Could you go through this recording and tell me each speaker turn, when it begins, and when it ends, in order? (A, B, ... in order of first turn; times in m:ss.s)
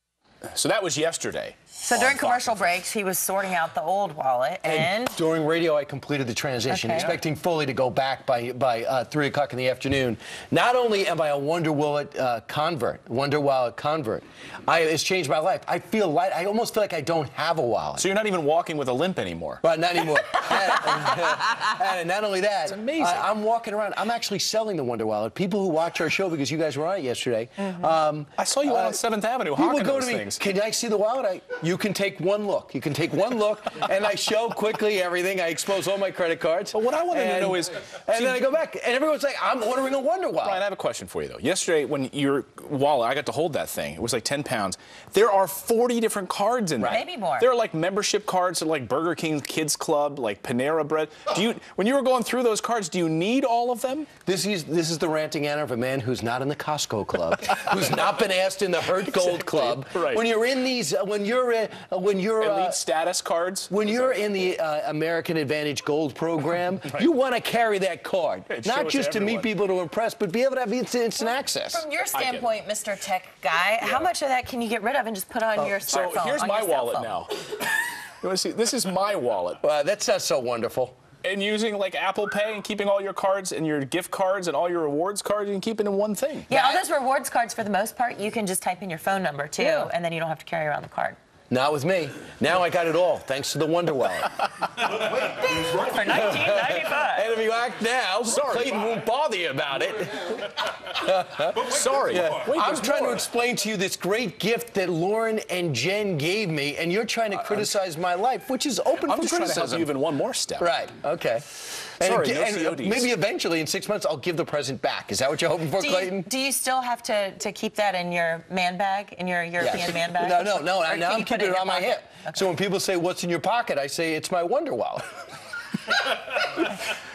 0:00.4-0:02.6 A
0:01.8-0:05.2 B
0:04.6-0:18.0 C
0:06.7-0:07.1 B
0:06.9-0:07.2 A
0:18.0-0:19.6 A
0:19.6-0:29.0 C
0:22.6-0:23.3 A
0:28.4-0:30.4 A
0:29.5-0:40.6 C
0:36.7-0:38.5 A
0:40.4-0:54.1 A
0:46.8-0:47.0 C
0:46.9-0:47.5 B
0:54.2-1:02.8 C
0:59.1-1:00.2 A
1:02.4-1:04.2 A
1:03.7-1:11.8 C
1:08.5-1:09.5 A
1:11.7-1:17.2 B
1:12.1-1:12.5 A
1:13.8-1:14.1 A
1:15.6-1:17.3 A
1:18.2-1:19.6 A
1:19.6-1:21.0 C
1:21.2-1:26.8 A
1:26.5-1:31.2 B
1:29.6-1:29.9 A
1:31.5-1:34.3 C
1:34.9-1:35.3 C
1:35.2-1:37.3 B
1:36.0-1:49.9 C
1:38.3-1:38.9 A
1:41.6-1:43.3 A
1:47.3-1:47.8 A
1:49.0-1:50.7 A
1:50.6-1:51.4 C
1:52.0-1:56.3 C
1:52.0-1:53.1 A
1:55.8-2:02.4 B
1:59.6-2:05.1 C